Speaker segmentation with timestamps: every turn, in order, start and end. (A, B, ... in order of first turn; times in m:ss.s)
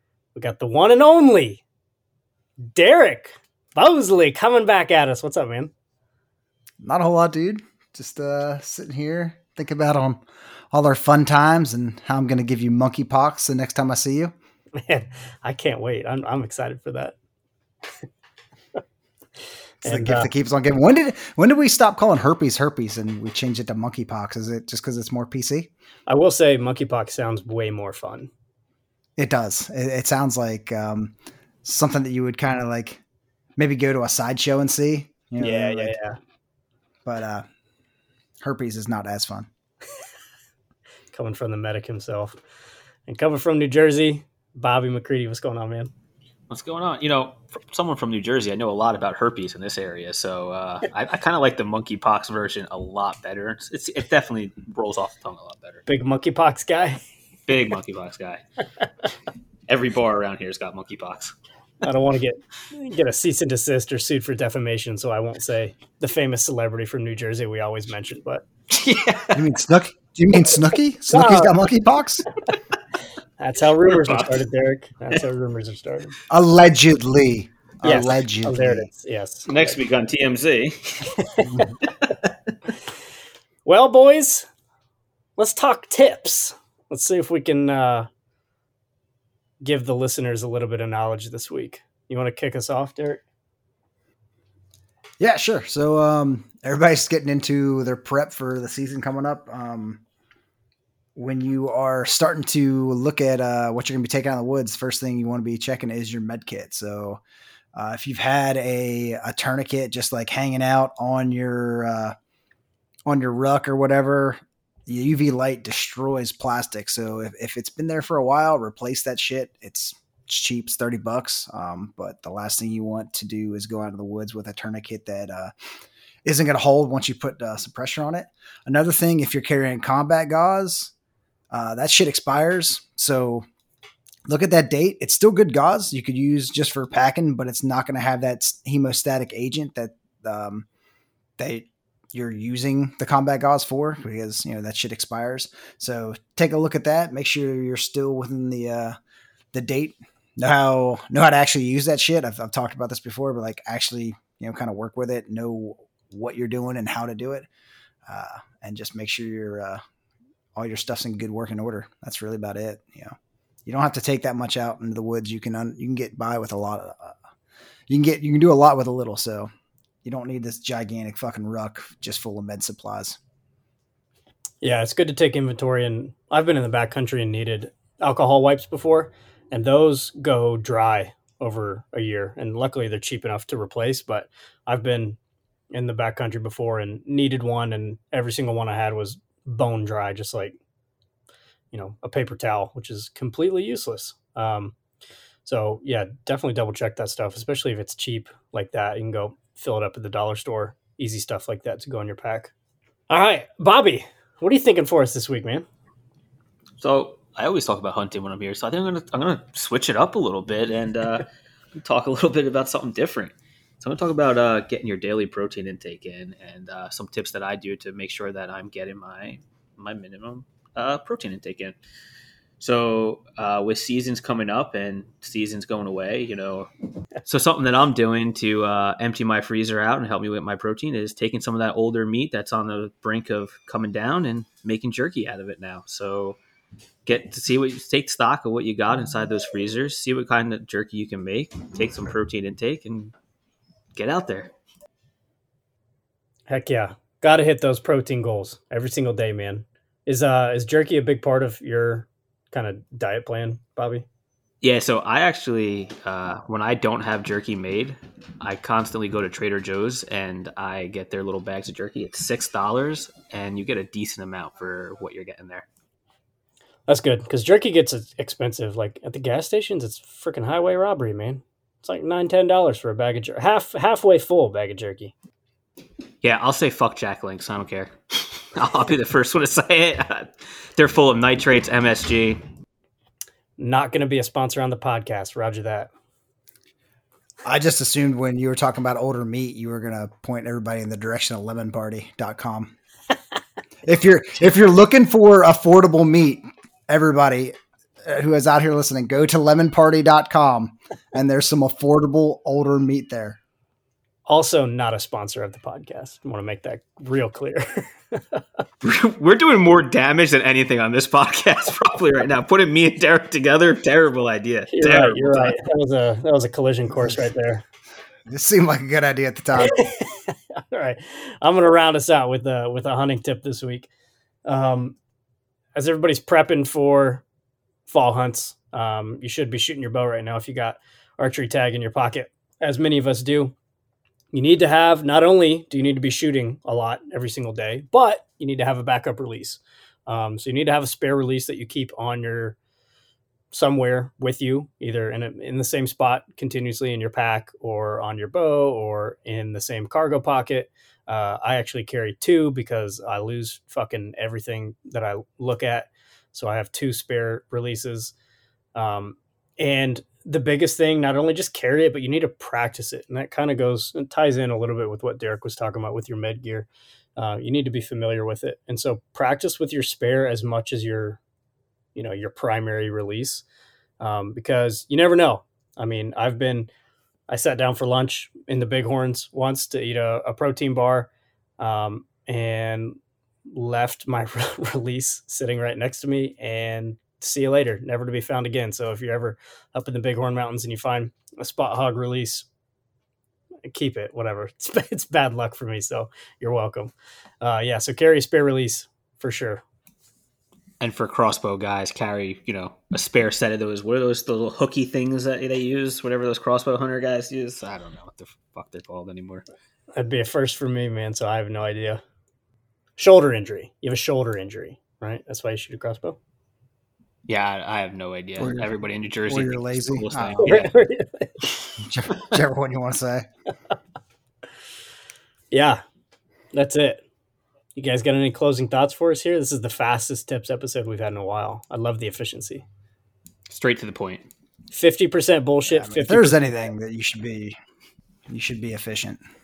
0:00.4-0:01.6 A
0:02.7-0:05.7 A
0:06.8-0:14.3 B
0:14.8-0:17.2 A
0:19.8-0:25.7 B
0:19.8-0:20.3 A
0:26.1-0:28.3 A
0:29.2-0:31.1 B
0:31.6-0:33.0 B
0:33.6-0:36.0 B
0:35.4-0:36.2 A
0:37.0-0:37.4 B
0:38.4-0:39.5 B
0:41.1-0:42.4 A
0:43.1-0:45.9 A
0:46.5-0:55.8 C
0:55.9-0:57.0 A
0:57.5-0:58.4 C
0:59.7-1:01.3 C
1:01.8-1:08.4 A
1:08.7-1:09.5 C
1:09.4-1:12.3 B
1:11.1-1:11.6 A
1:13.4-1:16.2 A
1:13.8-1:14.4 C
1:16.3-1:18.9 B
1:17.8-1:19.8 A
1:19.5-1:22.2 C
1:21.4-1:21.7 A
1:23.6-1:24.5 A
1:25.4-1:28.1 A
1:29.6-1:33.2 A
1:35.2-1:40.0 B
1:41.2-1:47.2 B
1:47.7-1:52.1 B
1:53.1-2:05.5 B
2:06.2-2:10.9 B
2:11.5-2:13.4 B
2:14.3-2:20.6 B
2:21.4-2:29.0 B
2:29.5-2:37.5 B
2:38.1-2:39.8 B
2:40.6-2:43.1 B
2:43.7-2:47.2 B
2:47.9-2:49.5 B
2:50.0-2:53.2 B
2:54.6-3:05.2 A
3:05.7-3:10.6 A
3:11.7-3:14.8 A
3:15.4-3:22.5 A
3:23.1-3:25.6 A
3:26.8-3:41.8 C
3:42.6-3:46.7 C
3:47.2-3:56.4 C
3:57.1-4:03.1 C
4:04.0-4:04.5 C
4:06.5-4:14.1 A
4:14.6-4:25.7 C
4:26.9-4:35.1 A
4:36.2-4:42.4 C
4:43.6-4:45.9 A
4:47.4-4:52.7 B
4:53.8-4:57.5 B
4:58.0-5:03.4 B
5:04.3-5:08.4 A
5:08.8-5:15.6 C
5:14.7-5:17.6 A
5:18.3-5:19.8 B
5:19.6-5:23.9 A
5:24.5-5:25.0 A
5:25.8-5:27.2 A
5:27.9-5:33.5 A
5:34.3-5:42.6 A
5:43.5-5:58.1 A
5:58.8-6:11.2 A
6:12.0-6:13.4 A
6:14.0-6:16.7 A
6:17.3-6:32.5 A
6:33.7-6:39.6 A
6:40.8-6:49.5 C
6:50.0-6:52.0 A
6:53.0-6:56.2 A
6:57.3-7:00.7 C
6:58.4-6:58.7 B
6:59.3-7:00.6 B
7:00.4-7:01.3 A
7:01.8-7:03.3 B
7:05.5-7:05.8 A
7:06.5-7:07.0 A
7:07.8-7:12.6 A
7:13.5-7:14.3 C
7:14.7-7:16.4 A
7:15.7-7:17.6 B
7:18.3-7:19.2 B